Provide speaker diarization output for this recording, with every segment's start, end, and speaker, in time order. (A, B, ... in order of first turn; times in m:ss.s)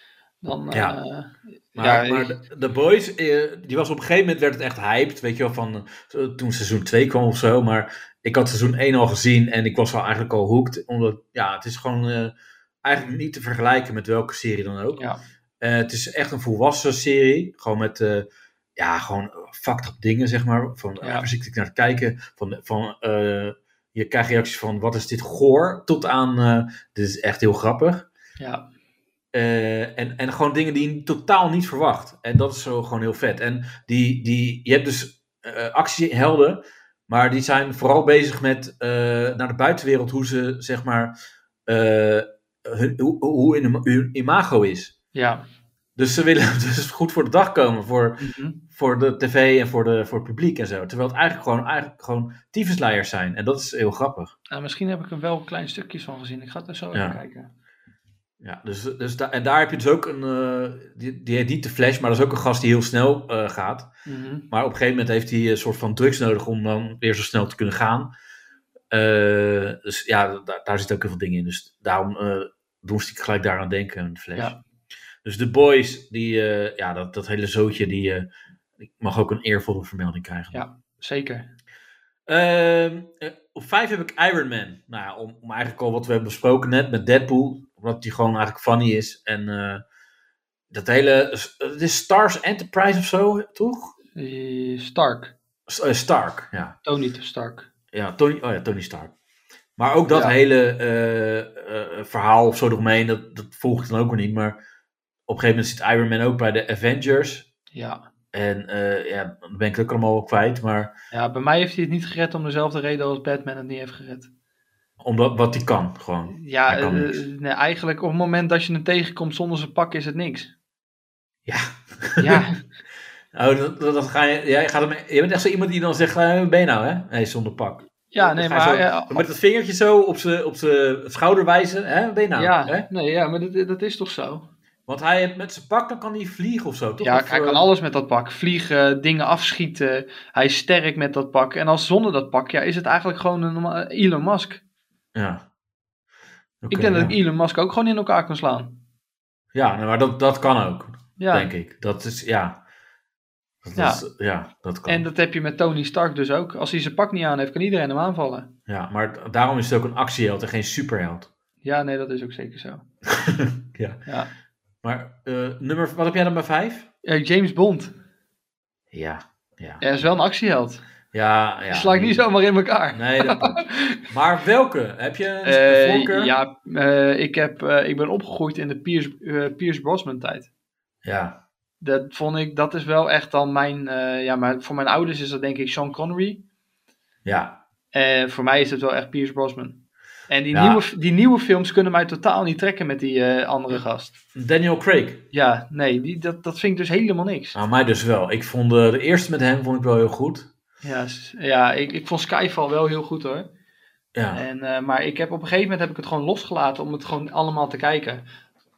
0:00.4-0:02.3 A
0:00.7-0:01.0 B
0:01.8-0:15.0 B
0:15.6-0:28.1 B
0:21.0-0:21.3 A
0:28.4-0:28.7 A
0:29.3-0:41.1 B
0:41.7-0:44.9 B
0:45.1-0:45.4 A
0:46.0-0:54.3 B
0:48.2-0:48.6 A
0:54.5-0:57.5 A
0:56.9-0:57.2 B
0:58.4-1:03.9 B
1:04.0-1:04.5 A
1:04.5-1:08.1 B
1:08.9-1:14.6 B
1:15.2-1:18.3 B
1:19.0-1:20.6 B
1:20.5-1:21.5 A
1:22.3-1:29.8 B
1:30.7-1:33.9 B
1:34.2-1:35.3 A
1:35.7-1:36.8 B
1:36.8-1:37.7 A
1:37.9-1:39.1 B
1:39.8-1:44.6 B
1:45.3-1:47.4 B
1:47.7-1:48.0 A
1:48.3-1:50.9 B
1:51.1-1:54.3 A
1:55.0-1:57.2 B
1:56.3-2:00.5 A
2:01.4-2:02.4 B
2:02.2-2:02.6 A
2:03.3-2:12.9 B
2:08.1-2:09.2 A
2:12.4-2:14.4 A
2:14.9-2:17.7 B
2:17.0-2:24.6 A
2:25.1-2:25.4 B
2:26.6-2:27.2 B
2:26.7-2:28.8 A
2:29.5-2:32.6 B
2:31.2-2:31.5 A
2:33.6-2:35.0 B
2:33.8-2:34.0 A
2:34.9-2:38.5 A
2:38.7-2:41.3 B
2:41.6-2:42.8 A
2:43.1-2:44.0 B
2:44.8-2:46.9 B
2:47.0-2:47.9 A
2:48.9-2:49.8 B
2:49.8-2:50.8 A
2:51.1-2:52.2 B
2:51.7-2:54.0 A
2:52.9-2:56.3 B
2:55.4-3:00.5 A
3:01.0-3:01.4 B
3:01.8-3:06.4 A
3:07.2-3:07.6 B
3:07.9-3:09.8 A
3:10.3-3:14.2 A
3:10.5-3:10.8 B
3:14.3-3:15.2 B
3:15.3-3:17.6 A
3:17.5-3:20.5 B
3:20.8-3:23.5 A
3:24.1-3:24.4 B
3:24.3-3:28.2 A